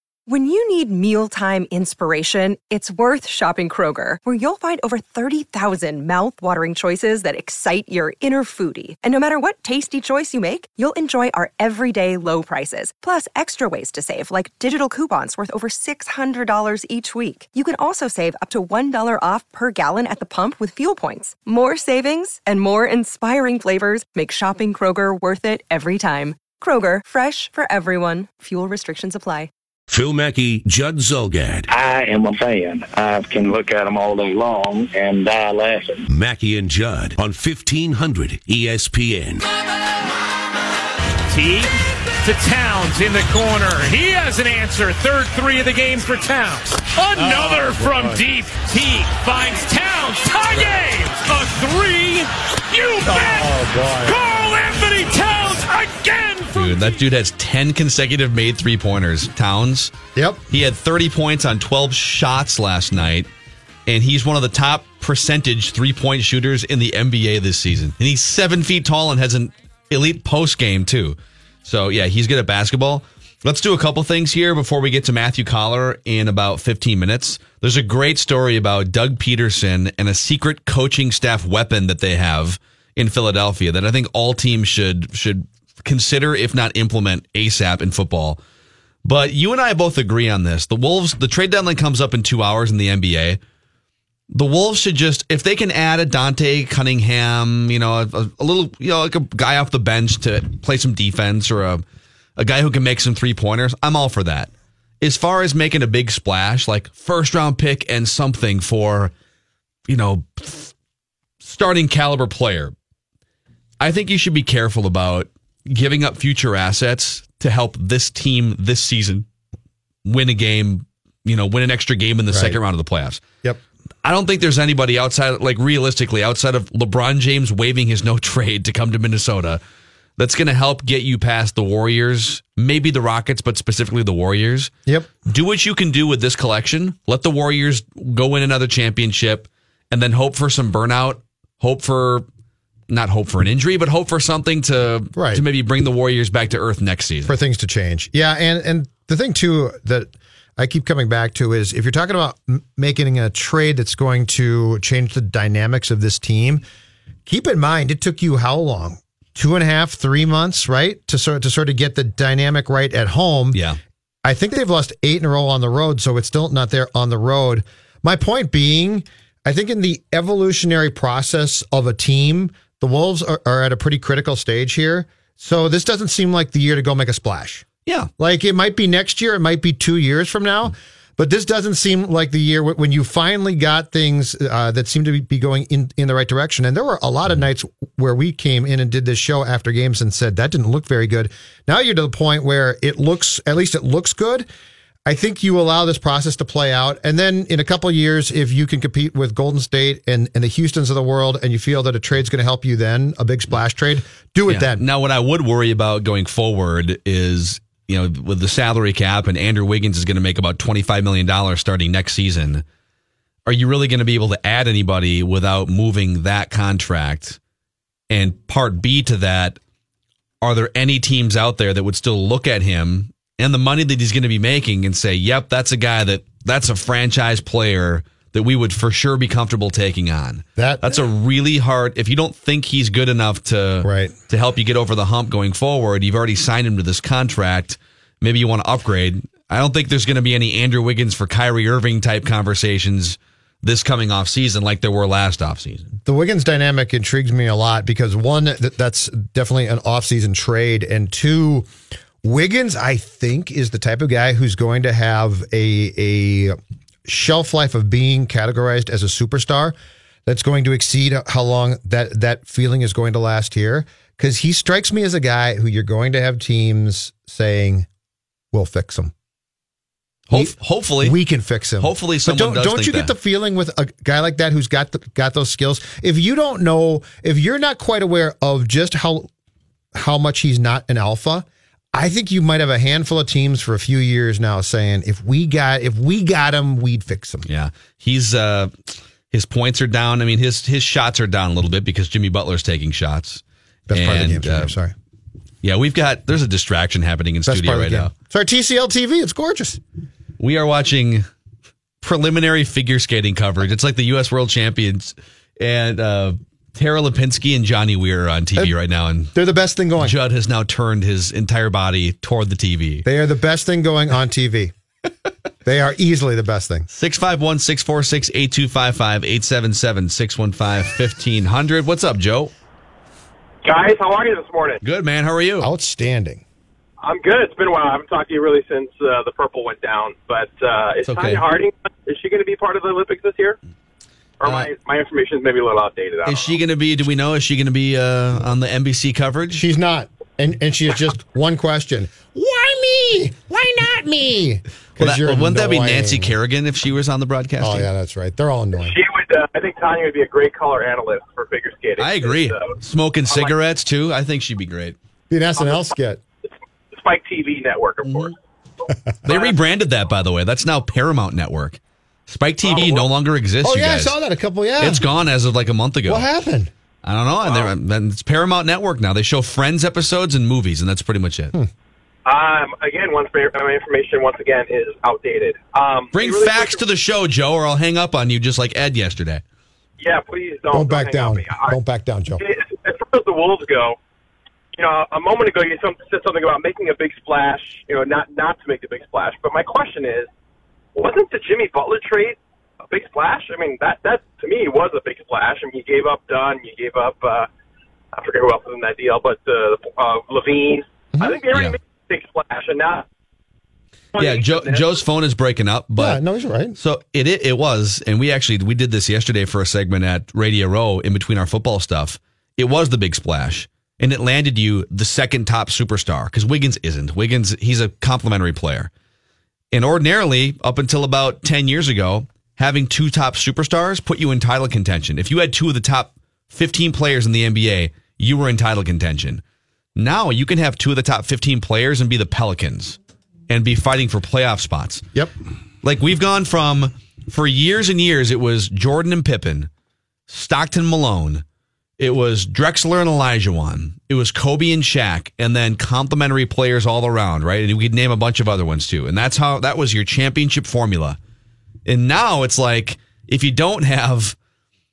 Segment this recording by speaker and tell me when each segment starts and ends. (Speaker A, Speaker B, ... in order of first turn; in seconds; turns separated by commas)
Speaker A: 0.3-29.5, Speaker B: 29.9-31.7, Speaker C: 31.7-36.0, Speaker B: 36.1-39.5, Speaker D: 41.3-56.8, Speaker E: 47.2-48.2, Speaker E: 53.1-54.2, Speaker F: 56.5-59.9, Speaker E: 60.2-60.4, Speaker F: 60.5-63.3, Speaker F: 63.9-88.4, Speaker F: 89.0-93.4, Speaker F: 94.3-101.8, Speaker F: 102.4-109.1, Speaker F: 109.9-110.7, Speaker F: 111.4-112.7, Speaker F: 113.8-119.3, Speaker F: 120.0-123.2, Speaker E: 122.3-122.6, Speaker F: 124.0-129.6, Speaker F: 130.2-134.7, Speaker F: 135.3-142.3, Speaker F: 142.9-147.3, Speaker E: 145.2-145.4, Speaker E: 147.2-156.6, Speaker E: 157.3-163.6, Speaker F: 163.5-163.8, Speaker E: 164.2-177.7, Speaker E: 178.2-194.5, Speaker E: 195.1-204.8, Speaker F: 204.5-212.6, Speaker F: 213.5-217.4, Speaker F: 218.1-219.6, Speaker F: 220.4-245.9, Speaker E: 230.6-231.0, Speaker E: 233.8-234.2, Speaker E: 246.1-251.7, Speaker E: 252.2-267.9, Speaker E: 268.5-269.1, Speaker F: 270.3-271.2, Speaker E: 270.3-279.3, Speaker F: 271.8-273.1, Speaker E: 279.9-287.4, Speaker F: 287.5-294.7, Speaker E: 293.9-294.9, Speaker F: 295.6-298.1, Speaker E: 297.4-299.8, Speaker F: 300.4-301.3, Speaker F: 302.0-309.3, Speaker E: 309.4-310.2, Speaker F: 310.0-313.1, Speaker E: 313.1-314.7, Speaker E: 315.6-316.9, Speaker F: 316.9-322.5, Speaker G: 323.6-324.8, Speaker F: 324.8-325.7, Speaker E: 325.6-326.4, Speaker G: 327.0-333.6, Speaker F: 331.1-331.4, Speaker G: 334.4-336.6, Speaker F: 334.4-334.7, Speaker F: 336.3-339.6, Speaker E: 339.6-346.4, Speaker F: 345.0-347.9, Speaker E: 347.6-348.9, Speaker G: 348.8-352.8, Speaker F: 352.0-355.0, Speaker E: 355.3-356.2, Speaker G: 355.6-355.9, Speaker G: 356.9-358.4, Speaker F: 358.0-358.3, Speaker F: 359.2-364.2, Speaker G: 359.3-359.6, Speaker G: 362.6-363.0, Speaker E: 363.6-365.0, Speaker F: 364.8-366.3, Speaker E: 366.1-366.7, Speaker F: 367.0-371.5, Speaker G: 367.4-367.7, Speaker G: 372.3-376.8, Speaker F: 376.1-379.4, Speaker G: 380.0-381.8, Speaker E: 380.7-382.4, Speaker G: 382.4-384.0, Speaker G: 384.8-390.3, Speaker G: 390.9-397.5, Speaker G: 398.1-403.1, Speaker E: 401.1-401.4, Speaker G: 404.1-404.9, Speaker F: 404.2-406.2, Speaker E: 406.0-406.8, Speaker F: 406.8-418.9, Speaker F: 419.7-429.4, Speaker F: 430.0-435.1, Speaker F: 435.8-439.7, Speaker F: 440.3-441.4, Speaker F: 442.0-451.2, Speaker F: 451.9-454.4